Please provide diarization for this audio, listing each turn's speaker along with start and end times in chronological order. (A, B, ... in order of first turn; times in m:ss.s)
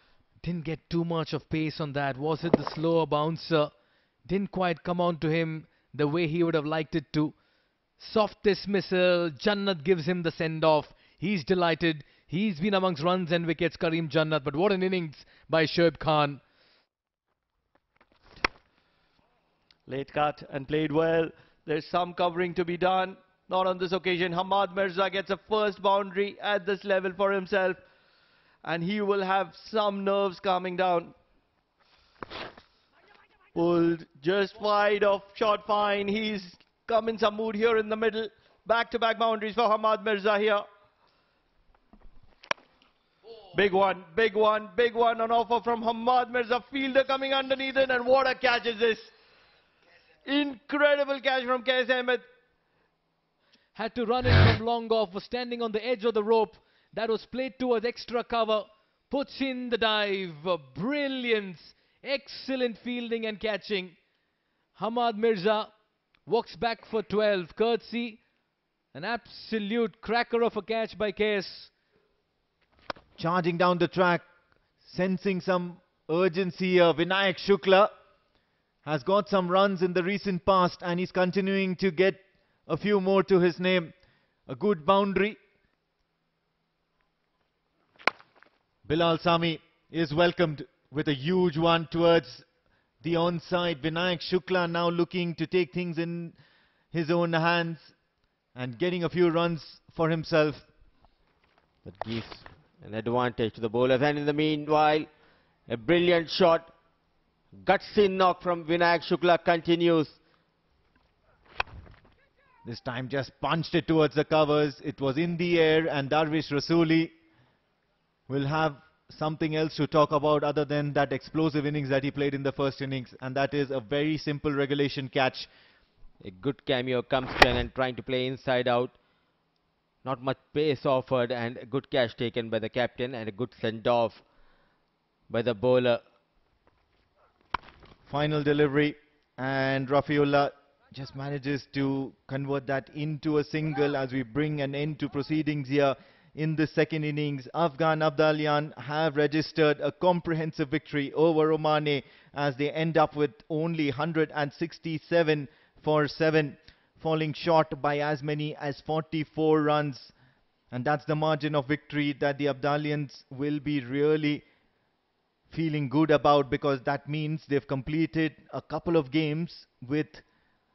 0:00.4-0:03.7 A
0:04.2-0:07.3 A
0:08.0-0:16.4 A
0:19.9-0:27.8 B
0:28.6-0:31.2 B
0:33.6-0:40.6 B
0:43.5-0:49.1 B
0:50.3-0:52.2 B
0:53.7-1:04.0 A
1:04.8-1:05.7 A
1:06.3-1:08.2 A
1:08.9-1:11.7 A
1:13.2-1:14.3 C
1:14.8-1:17.9 C
1:18.8-1:23.9 C
1:24.5-1:25.4 C
1:28.9-1:32.4 C
1:33.0-1:36.4 C
1:36.9-1:37.9 C
1:38.6-1:40.6 C
1:41.8-1:45.1 D
1:45.7-1:46.7 D
1:47.6-1:50.2 D
1:52.6-1:57.1 C
1:58.3-2:05.5 C
2:06.2-2:08.9 D
2:10.0-2:14.2 D
2:15.3-2:16.0 D
2:18.1-2:40.1 C
2:40.7-2:44.4 C
2:45.5-2:50.2 C